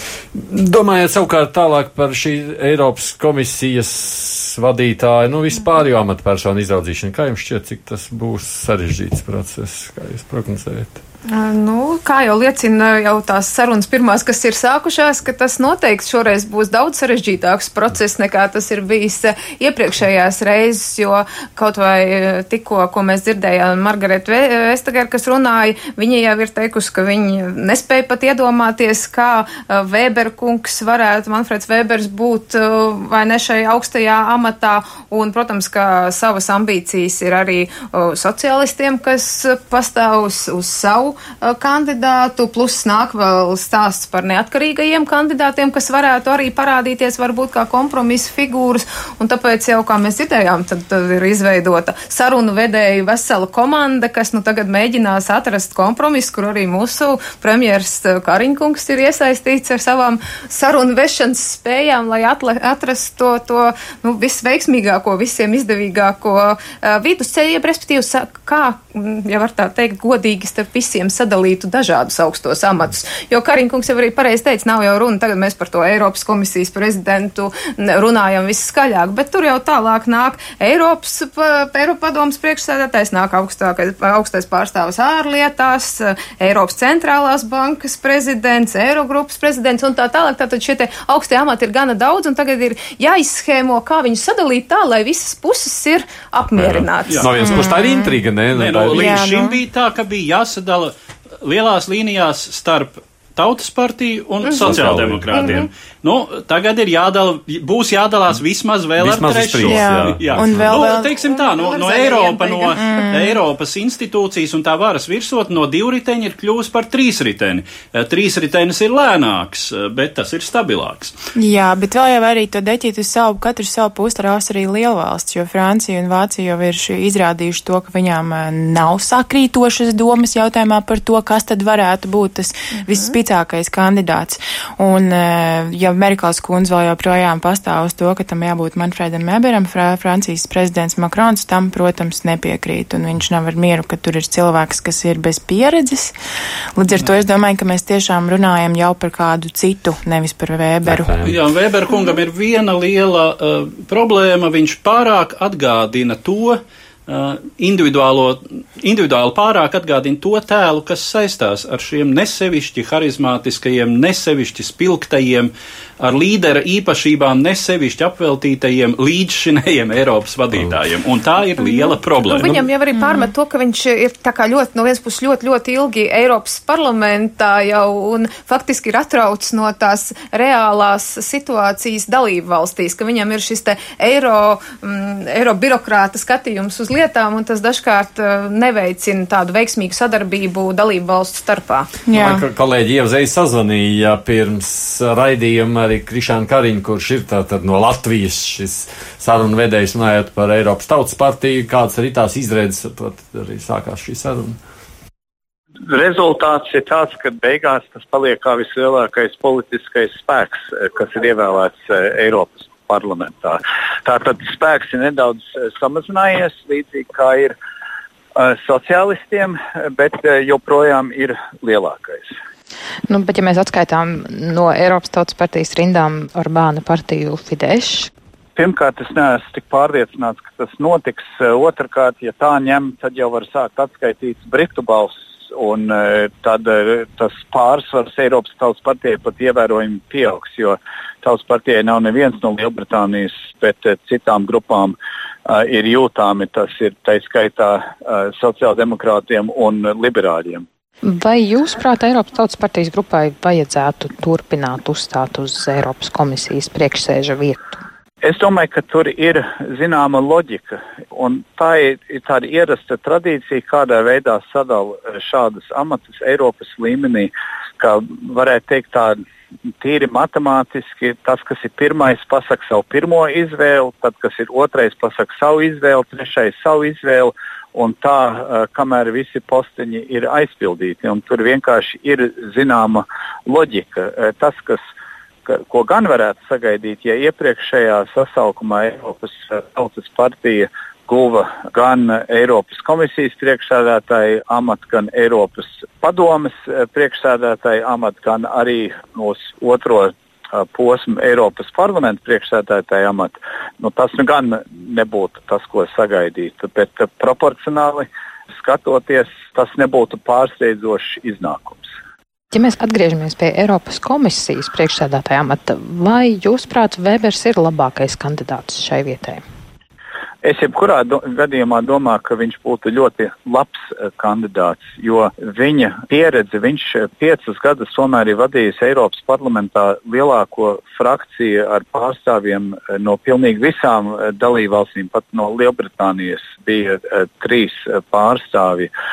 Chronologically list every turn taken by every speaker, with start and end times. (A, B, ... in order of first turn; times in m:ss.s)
0:00.4-0:11.0 A
0:11.3-1:37.3 B
1:36.4-1:39.3 A
1:37.4-1:38.2 C
1:38.5-2:01.1 D
1:38.9-1:39.6 C
1:44.6-1:45.7 A
1:49.0-1:50.8 A
1:49.6-1:51.2 C
1:51.2-1:53.0 B
1:52.7-1:53.4 C
2:01.4-2:26.1 C
2:26.8-2:31.1 C
2:30.8-2:31.4 A
2:31.2-2:52.7 D
2:51.6-3:11.9 B
2:53.0-2:53.3 C
3:12.1-3:12.4 C
3:12.1-3:24.6 A
3:25.9-3:37.6 E
3:38.4-3:42.3 E
3:43.1-3:48.1 F
3:48.6-4:05.0 E
4:05.5-4:10.6 E
4:11.0-4:17.6 F
4:18.2-4:29.2 E
4:29.8-4:44.8 E
4:45.5-5:11.9 E
5:12.5-5:19.4 F
5:20.4-5:38.9 E